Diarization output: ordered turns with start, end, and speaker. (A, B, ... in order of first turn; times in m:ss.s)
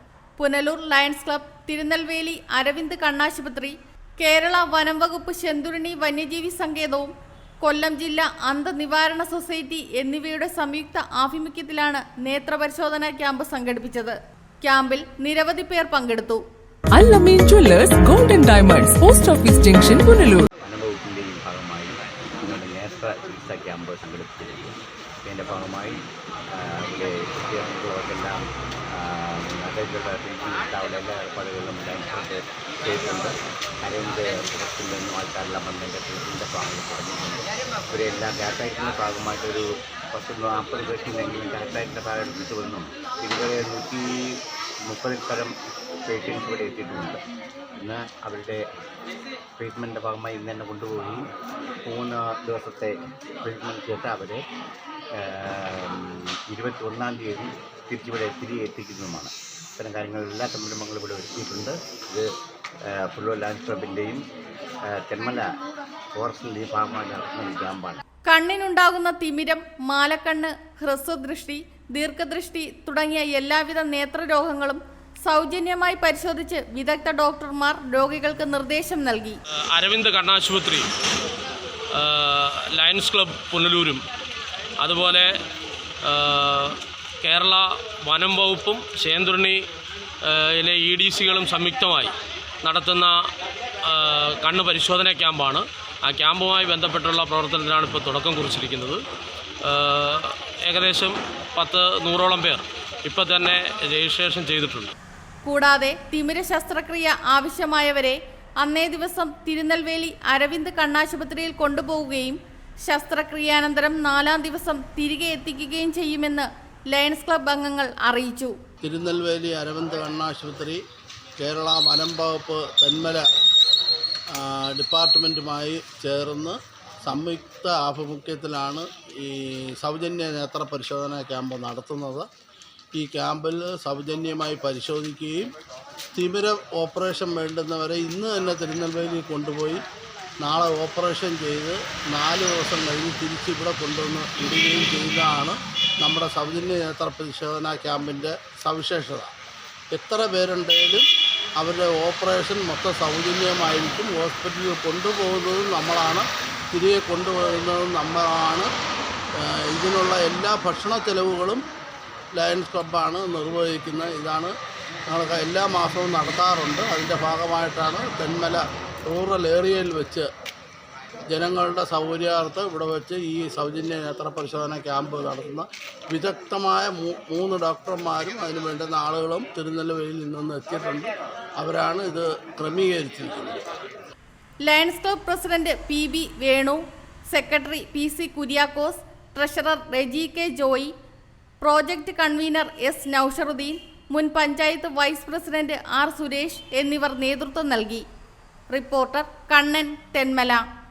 0:00.4-0:07.1 A
0:07.6-0:16.4 A
0:16.9-0:20.5 B
0:20.6-0:24.7 C
0:25.2-0:26.0 C
0:26.5-0:28.4 C
0:28.9-0:44.4 C
0:44.9-0:45.6 C
0:46.1-0:47.2 C
0:47.8-0:48.6 C
0:49.6-0:51.3 C
0:51.8-0:54.4 C
0:55.2-1:02.3 C
1:02.9-1:04.2 C
1:04.9-1:05.5 C
1:06.2-1:08.0 C
1:08.3-1:19.4 A
1:19.7-1:20.9 D
1:22.0-1:24.0 D
1:24.8-1:25.3 D
1:26.1-1:29.6 D
1:30.3-1:32.1 D
1:32.6-1:33.2 D
1:33.9-1:39.0 D
1:39.7-1:44.9 D
1:45.4-1:58.5 A
1:58.8-2:00.8 E
2:01.4-2:03.2 E
2:04.4-2:12.3 E
2:13.0-2:15.5 E
2:16.2-2:19.8 E
2:20.4-2:29.3 E
2:29.9-2:31.1 E
2:31.6-2:38.7 E
2:39.4-2:41.6 E
2:42.4-2:44.5 E
2:45.1-2:50.3 E
2:51.3-3:03.6 E
3:04.6-3:06.8 A
3:07.3-3:10.9 A
3:11.6-3:18.0 A
3:18.7-3:20.6 A